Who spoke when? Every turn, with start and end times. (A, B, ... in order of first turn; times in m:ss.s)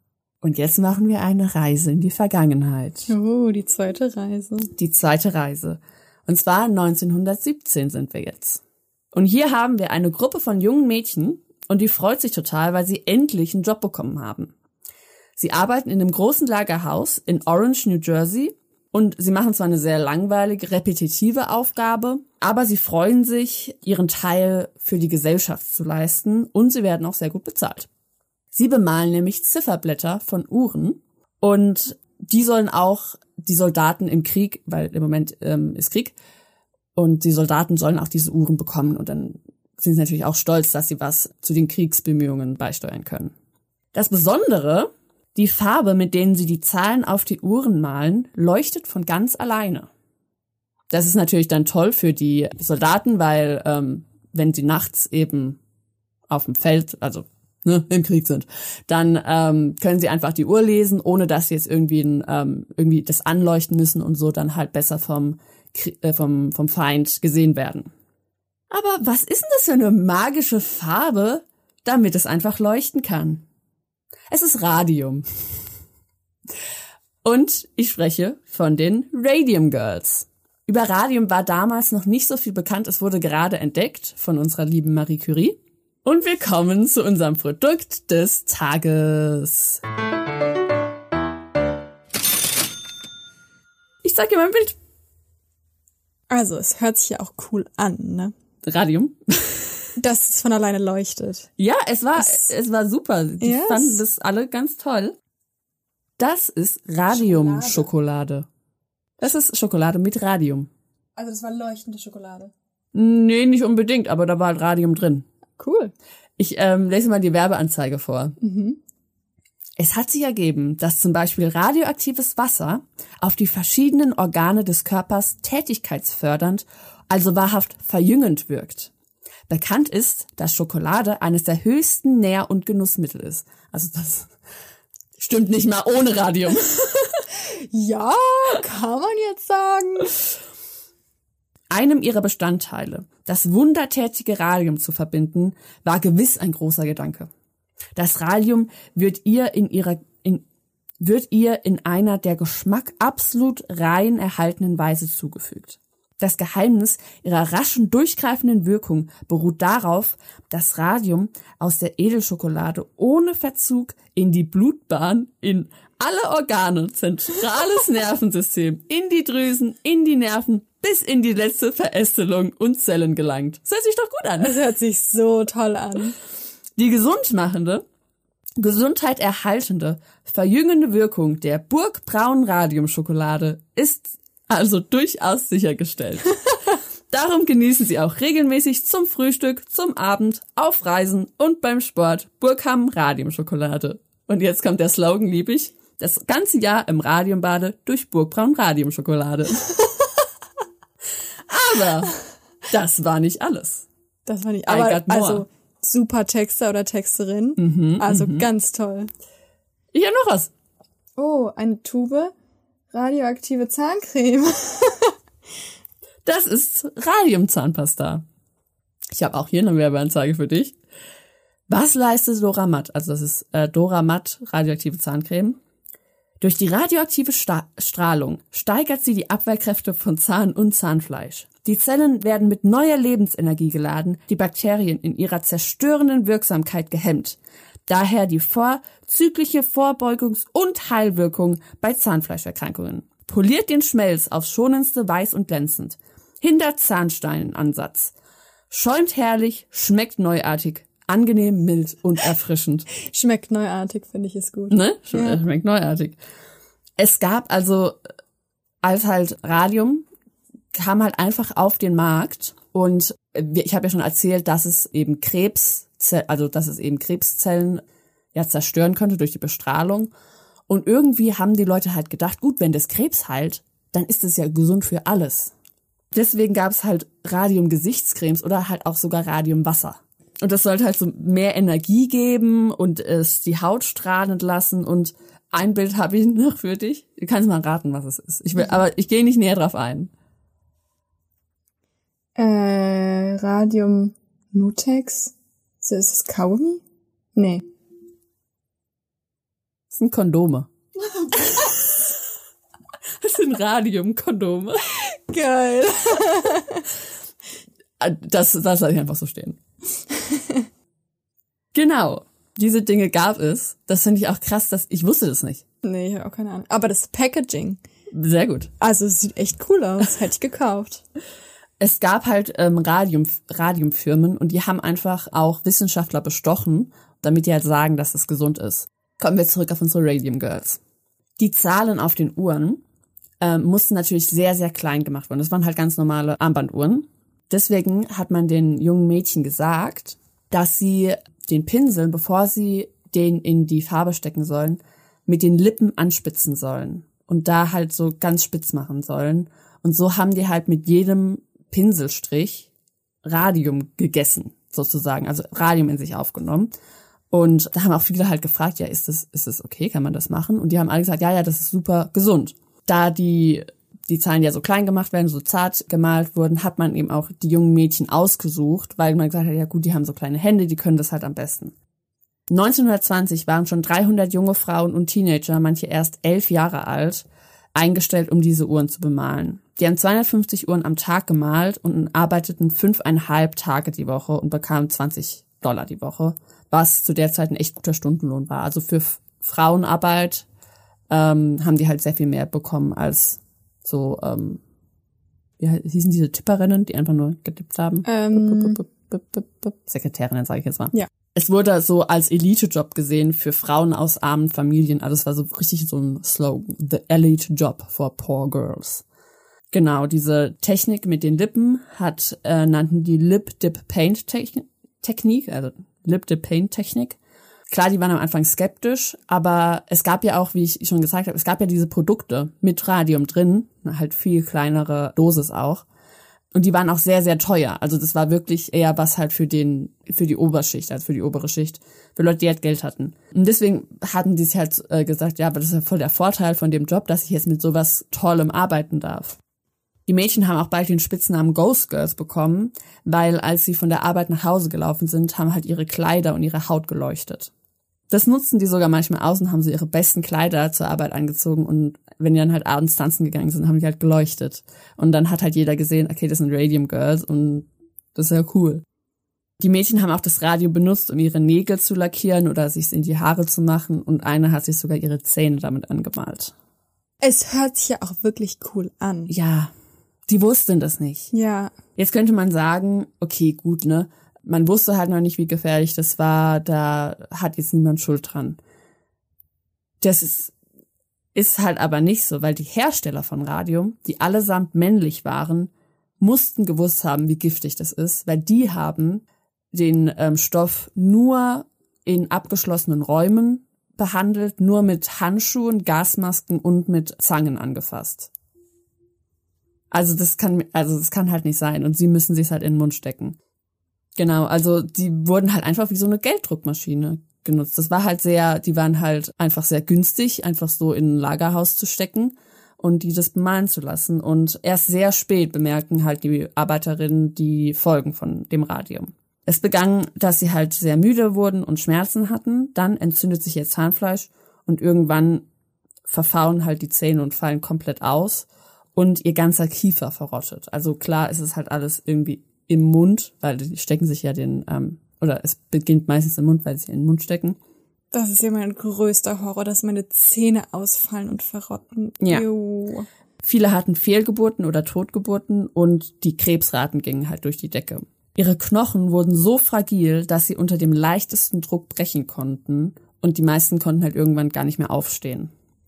0:00.4-0:03.1 A
0:03.1-0:04.7 B
0:04.8-0:08.6 A
0:09.1-0:14.5 A
0:15.4-0:27.9 A
0:28.5-0:36.1 A
0:37.0-0:43.3 A
0:43.9-0:49.9 A
0:50.9-0:55.6 A
0:56.3-1:07.9 A
1:08.7-1:13.4 A
1:14.3-1:15.2 A
1:17.2-1:29.8 A
1:34.0-1:34.8 A
1:36.3-1:38.3 B
1:38.6-1:39.8 A
1:40.0-1:41.5 B
1:41.6-1:45.2 A
1:42.2-1:42.4 B
1:43.4-1:44.0 B
1:46.2-1:48.5 A
1:47.1-1:47.9 B
1:49.2-1:50.7 A
1:51.2-1:52.5 B
1:52.9-1:55.2 A
1:55.6-1:55.9 B
1:56.4-1:58.4 A
1:58.4-1:58.8 B
1:59.8-2:08.9 A
2:09.5-2:14.3 A
2:15.2-2:17.2 A
2:17.7-2:20.1 B
2:21.7-2:27.3 A
2:28.0-2:30.4 A
2:31.0-2:54.6 A
2:54.4-2:56.2 B
2:56.8-2:57.8 A
2:58.6-3:06.4 A
3:07.1-3:19.7 A
3:21.5-3:22.1 A
3:22.7-3:23.9 A
3:24.2-3:29.1 B
3:24.7-3:25.4 A
3:27.6-3:28.5 A
3:29.9-3:30.5 A
3:31.2-3:32.3 B
3:32.9-3:35.1 B
3:36.2-3:38.2 A
3:39.1-3:40.8 A
3:41.7-3:45.6 A
3:46.4-4:08.1 A
4:08.7-4:12.9 A
4:13.0-4:15.4 B
4:14.7-4:16.2 A
4:17.0-4:18.0 A
4:18.8-4:20.0 A
4:20.7-4:27.8 A
4:28.3-4:30.1 A
4:30.7-4:35.5 A
4:36.1-4:50.1 A
4:52.4-4:56.8 B
4:57.4-4:57.6 B
4:59.9-5:00.7 A
5:03.2-5:04.9 A
5:05.3-5:06.8 B
5:08.0-5:09.6 A
5:10.1-5:10.6 B
5:11.7-5:15.6 A
5:15.8-5:17.8 B
5:18.1-5:18.7 A
5:18.8-5:21.0 B
5:21.8-5:30.8 A
5:31.4-5:32.8 A
5:33.4-5:52.7 A
5:53.2-5:56.7 A
5:57.3-6:11.7 A
6:12.5-6:30.4 A
6:31.1-6:34.6 A
6:35.6-6:49.0 A
6:38.0-6:38.8 B
6:49.7-6:57.2 A
6:57.7-7:05.8 A
7:06.5-7:19.4 A
7:20.1-7:27.5 A
7:28.1-7:38.8 A
7:39.6-7:46.5 A
7:47.2-7:49.3 B
7:49.3-7:49.7 A
7:50.3-7:51.3 A
7:51.3-7:51.7 B
7:52.0-7:58.6 A
8:00.0-8:00.5 A
8:01.3-8:18.3 A
8:19.9-8:23.4 A
8:24.2-8:45.4 A
8:46.1-8:57.6 A
8:58.1-9:03.1 B
9:02.2-9:02.4 A
9:03.4-9:15.5 A